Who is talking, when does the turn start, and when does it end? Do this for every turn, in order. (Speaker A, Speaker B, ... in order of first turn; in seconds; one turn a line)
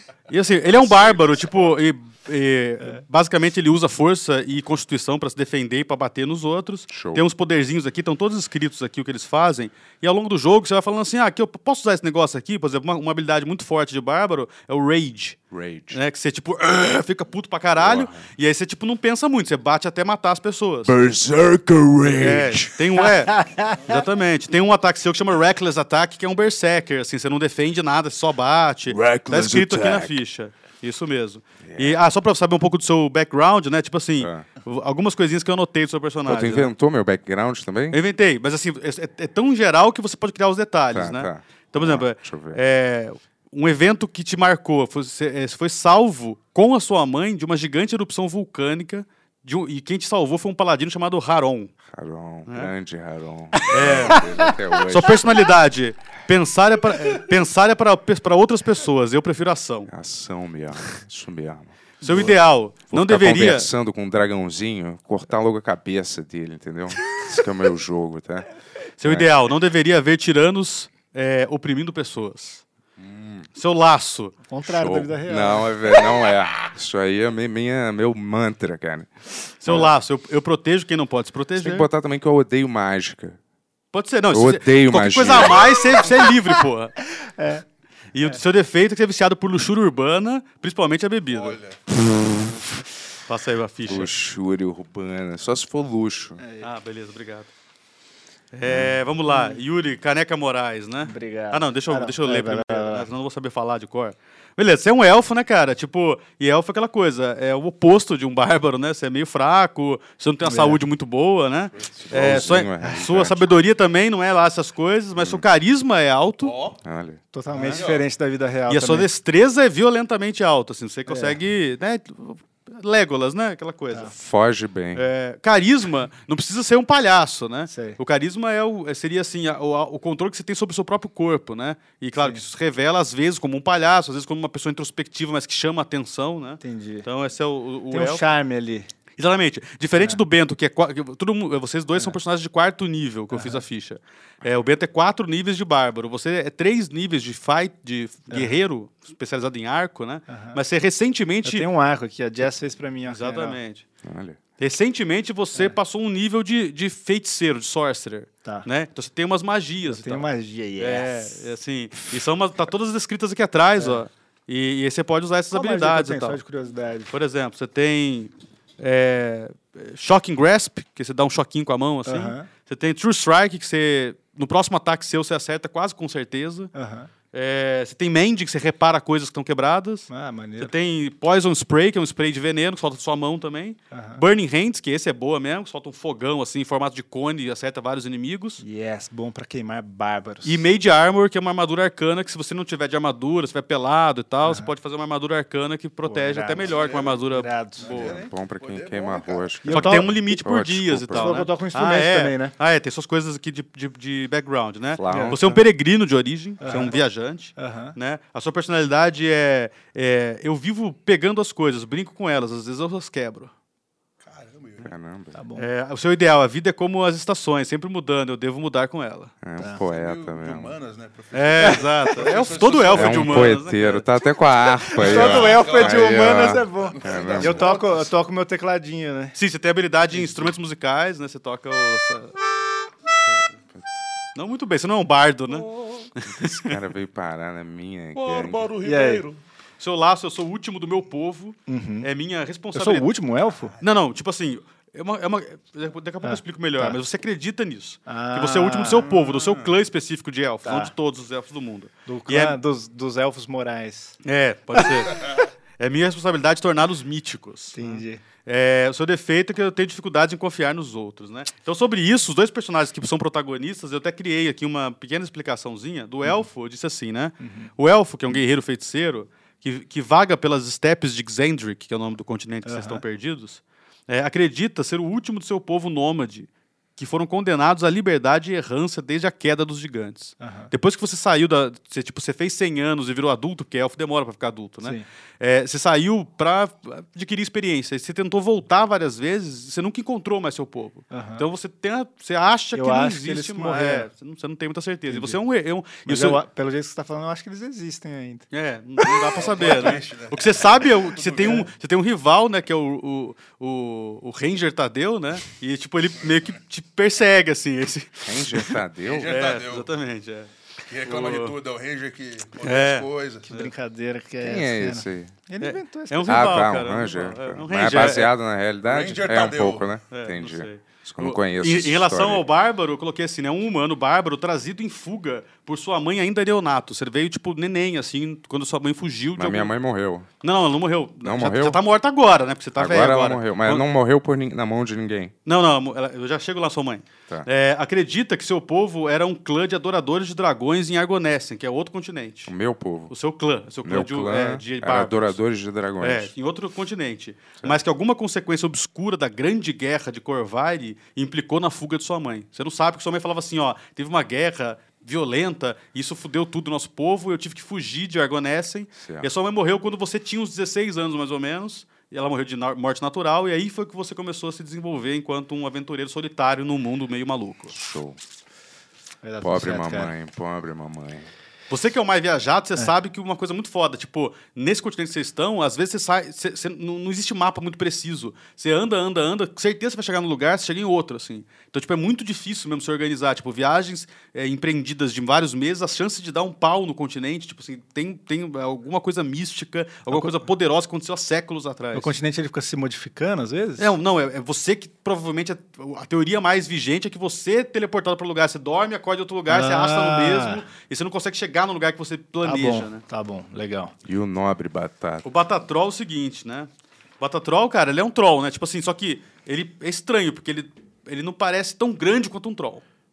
Speaker A: 0.3-15.4
Speaker B: 6.9-7.3
Speaker B: 15.5-16.0
Speaker A: 15.9-21.0
Speaker B: 17.8-18.3
Speaker B: 20.9-22.9
Speaker A: 22.1-36.7
Speaker C: 23.1-23.8
Speaker B: 28.9-30.2
Speaker B: 31.6-32.0
Speaker B: 34.2-34.5
Speaker B: 36.3-38.0
Speaker A: 37.9-51.7
Speaker B: 40.9-42.6
Speaker B: 51.9-55.5
Speaker A: 52.5-52.7
Speaker A: 53.6-54.3
Speaker A: 54.9-59.9
Speaker B: 59.9-62.2
Speaker A: 62.0-63.7
Speaker C: 62.0-62.3
Speaker B: 62.9-68.5
Speaker A: 69.0-72.6
Speaker B: 69.0-69.3
Speaker B: 73.0-73.5
Speaker A: 73.5-74.3
Speaker C: 74.5-75.7
Speaker B: 74.6-79.9
Speaker A: 79.6-81.9
Speaker B: 81.6-83.4
Speaker A: 83.9-87.0
Speaker B: 84.3-86.1
Speaker C: 87.2-87.6
Speaker A: 88.1-91.6
Speaker D: 91.3-91.8
Speaker B: 92.0-92.6
Speaker A: 93.3-94.1
Speaker B: 93.8-96.4
Speaker C: 96.4-96.7
Speaker A: 96.6-97.5
Speaker A: 98.5-116.5
Speaker B: 98.6-99.0
Speaker C: 99.3-99.6
Speaker C: 101.0-103.1
Speaker C: 110.5-110.8
Speaker B: 111.9-113.5
Speaker B: 115.2-115.5
Speaker D: 116.4-116.8
Speaker B: 116.8-117.2
Speaker C: 117.3-119.1
Speaker D: 117.5-118.1
Speaker A: 118.7-124.1
Speaker C: 121.1-121.4
Speaker B: 124.1-125.0
Speaker A: 125.0-138.2
Speaker C: 127.7-128.0
Speaker C: 136.6-137.1
Speaker C: 137.9-138.9
Speaker A: 139.2-151.7
Speaker C: 143.3-143.6
Speaker C: 148.3-148.6
Speaker C: 150.3-150.6
Speaker C: 151.4-153.6
Speaker A: 153.1-153.8
Speaker B: 154.0-154.4
Speaker A: 154.6-160.3
Speaker C: 159.8-161.5
Speaker A: 160.8-166.4
Speaker C: 163.8-164.0
Speaker C: 165.5-167.1
Speaker A: 167.1-176.7
Speaker C: 172.1-172.5
Speaker C: 176.8-177.1
Speaker A: 177.3-188.6
Speaker C: 180.1-180.7
Speaker C: 183.9-184.2
Speaker C: 188.6-190.7
Speaker A: 190.4-198.1
Speaker C: 196.1-198.1
Speaker D: 196.6-197.2
Speaker D: 197.8-199.6
Speaker B: 198.0-201.5
Speaker C: 199.6-200.4
Speaker A: 199.7-213.5
Speaker C: 201.1-202.5
Speaker B: 205.0-205.4
Speaker C: 205.1-205.6
Speaker D: 206.7-206.9
Speaker C: 206.7-207.0
Speaker C: 207.6-208.0
Speaker D: 214.2-214.9
Speaker B: 214.8-215.4
Speaker C: 215.4-215.7
Speaker A: 215.6-219.3
Speaker B: 219.4-220.8
Speaker C: 219.6-219.8
Speaker D: 219.7-223.6
Speaker A: 221.3-224.1
Speaker B: 222.9-227.7
Speaker C: 224.9-229.4
Speaker D: 225.0-228.1
Speaker A: 229.3-232.4
Speaker C: 230.2-230.4
Speaker A: 234.3-236.8
Speaker D: 235.5-236.1
Speaker B: 236.4-238.7
Speaker D: 238.1-239.4
Speaker C: 238.8-239.3
Speaker A: 239.8-243.1
Speaker C: 241.7-242.1
Speaker C: 242.7-243.8
Speaker A: 243.8-252.6
Speaker C: 246.2-247.0
Speaker C: 248.1-249.1
Speaker D: 248.9-249.8
Speaker C: 250.6-250.9
Speaker C: 252.1-254.2
Speaker A: 254.2-257.8
Speaker C: 254.8-255.0
Speaker C: 257.7-258.2
Speaker A: 258.4-296.4
Speaker C: 267.4-267.7
Speaker C: 272.7-273.0
Speaker C: 280.4-280.7
Speaker C: 291.1-291.4
Speaker C: 292.7-294.1
Speaker C: 295.1-295.4
Speaker C: 296.1-298.5
Speaker A: 298.5-308.8
Speaker D: 299.1-301.7
Speaker B: 308.2-309.3
Speaker D: 309.0-309.9
Speaker A: 309.3-310.5
Speaker D: 310.9-313.5
Speaker A: 311.0-311.6
Speaker A: 312.6-313.7
Speaker C: 313.5-316.8
Speaker B: 314.4-315.4
Speaker A: 315.6-318.3
Speaker B: 316.2-322.4
Speaker D: 318.8-319.9
Speaker A: 320.1-329.7
Speaker B: 329.4-330.3
Speaker A: 330.4-333.9
Speaker B: 331.2-331.8
Speaker B: 332.8-335.3
Speaker A: 335.5-342.5
Speaker B: 342.5-343.1
Speaker A: 343.1-345.4
Speaker B: 343.8-346.3
Speaker A: 346.0-367.8
Speaker B: 359.0-359.3
Speaker B: 367.7-368.2
Speaker C: 369.2-370.1
Speaker B: 369.4-371.3
Speaker A: 371.7-392.1
Speaker C: 391.9-393.9
Speaker A: 393.8-403.0
Speaker C: 399.5-400.6
Speaker C: 402.4-403.9
Speaker B: 404.1-405.2
Speaker A: 405.2-406.7
Speaker A: 407.2-412.8